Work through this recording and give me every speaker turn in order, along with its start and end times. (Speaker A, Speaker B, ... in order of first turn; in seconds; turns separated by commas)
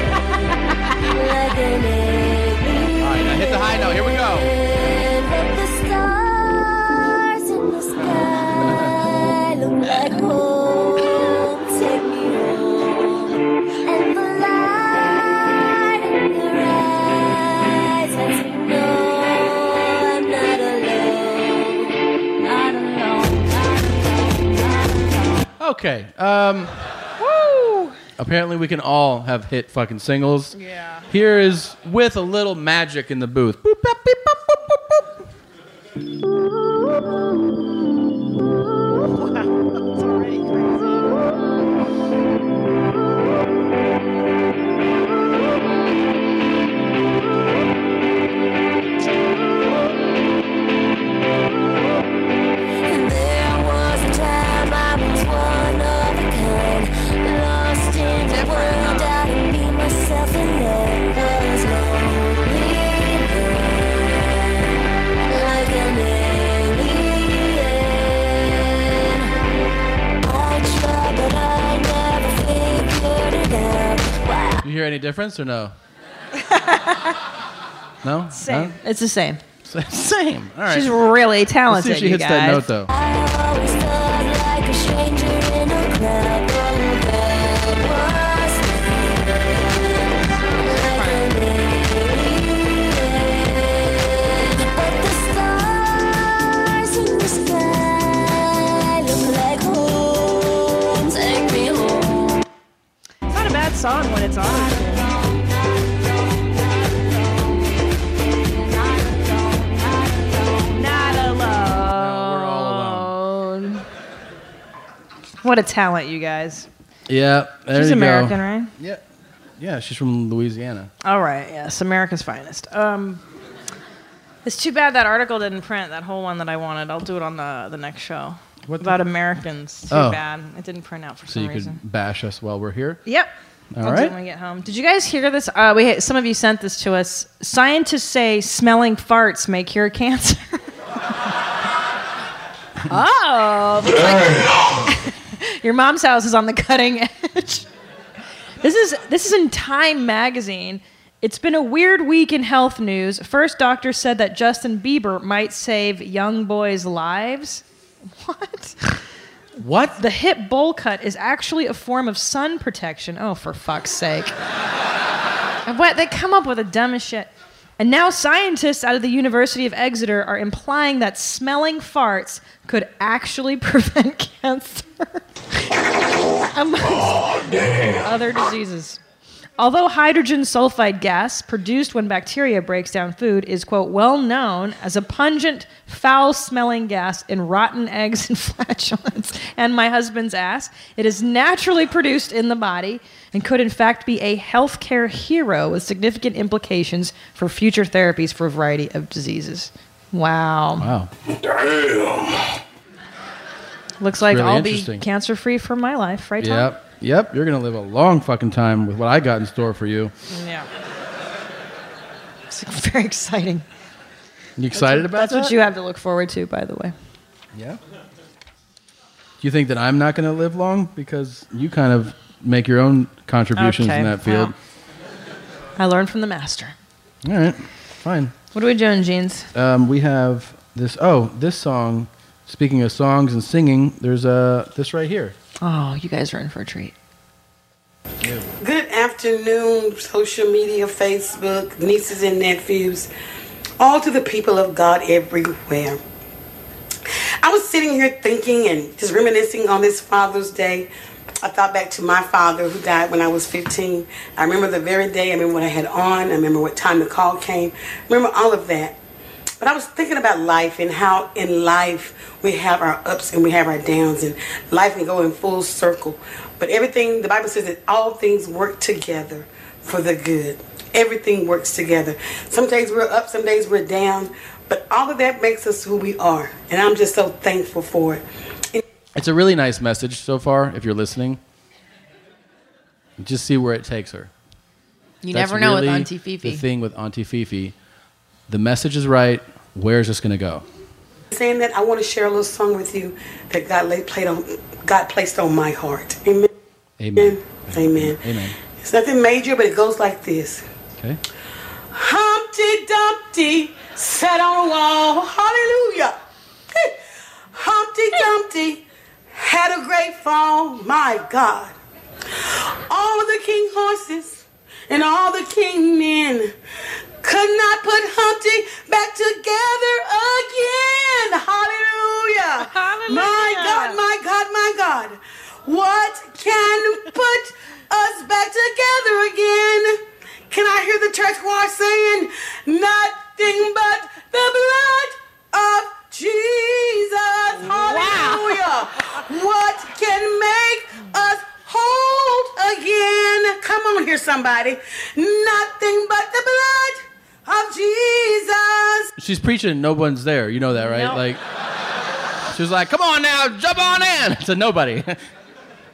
Speaker A: 1.1-25.4, Speaker B: 3.0-4.5, Speaker B: 25.6-26.8, Speaker C: 27.2-28.0, Speaker B: 28.2-30.6, Speaker C: 30.6-31.0, Speaker B: 31.1-35.0, Speaker C: 40.0-40.8, Speaker A: 52.8-64.8, Speaker C: 58.1-59.1, Speaker A: 65.3-69.3, Speaker A: 70.2-74.6, Speaker B: 74.6-75.7, Speaker C: 76.4-77.2, Speaker B: 78.0-78.8, Speaker C: 78.3-79.4, Speaker B: 79.6-80.9, Speaker C: 80.7-82.7, Speaker B: 81.7-82.9, Speaker A: 82.9-102.4, Speaker C: 90.2-91.3, Speaker C: 103.3-105.1, Speaker A: 104.4-111.0, Speaker C: 110.7-113.8, Speaker B: 111.9-113.1, Speaker C: 115.4-116.7, Speaker B: 117.1-119.0, Speaker C: 117.7-118.7, Speaker B: 119.6-120.9, Speaker C: 121.0-123.2, Speaker C: 124.4-131.8, Speaker B: 128.7-129.0, Speaker B: 129.9-130.2, Speaker B: 131.3-133.0, Speaker B: 133.7-134.1, Speaker C: 133.8-140.6, Speaker C: 142.9-147.7, Speaker C: 148.6-157.6, Speaker C: 158.2-159.0, Speaker B: 159.6-159.9, Speaker C: 159.7-164.3, Speaker C: 165.7-175.2, Speaker C: 176.4-179.0, Speaker C: 179.6-200.9, Speaker B: 200.8-201.1, Speaker C: 204.0-206.7, Speaker B: 204.2-205.0, Speaker B: 206.4-210.1, Speaker C: 210.3-210.7, Speaker C: 212.5-213.6, Speaker B: 214.6-215.5, Speaker C: 214.7-216.9, Speaker B: 217.5-217.8, Speaker B: 219.4-224.5, Speaker C: 223.6-224.5, Speaker C: 225.8-226.7, Speaker B: 227.2-228.3, Speaker C: 228.5-229.5, Speaker B: 229.5-235.3, Speaker C: 235.6-236.9, Speaker B: 238.2-238.5, Speaker D: 238.6-243.1, Speaker D: 243.8-246.0, Speaker D: 247.4-250.9, Speaker D: 251.4-258.9, Speaker D: 259.6-278.8, Speaker B: 279.1-281.4, Speaker B: 283.2-284.3, Speaker C: 285.2-286.6, Speaker B: 285.3-287.7, Speaker B: 288.5-290.6, Speaker D: 291.3-296.5, Speaker B: 297.0-298.6, Speaker D: 297.2-298.2, Speaker D: 298.8-300.6, Speaker D: 301.9-306.1, Speaker D: 307.5-311.7, Speaker D: 312.5-316.5, Speaker D: 317.2-330.0, Speaker C: 322.6-324.0, Speaker D: 330.5-349.1, Speaker C: 337.8-338.4, Speaker B: 349.2-351.4, Speaker C: 350.7-351.2, Speaker B: 352.5-355.2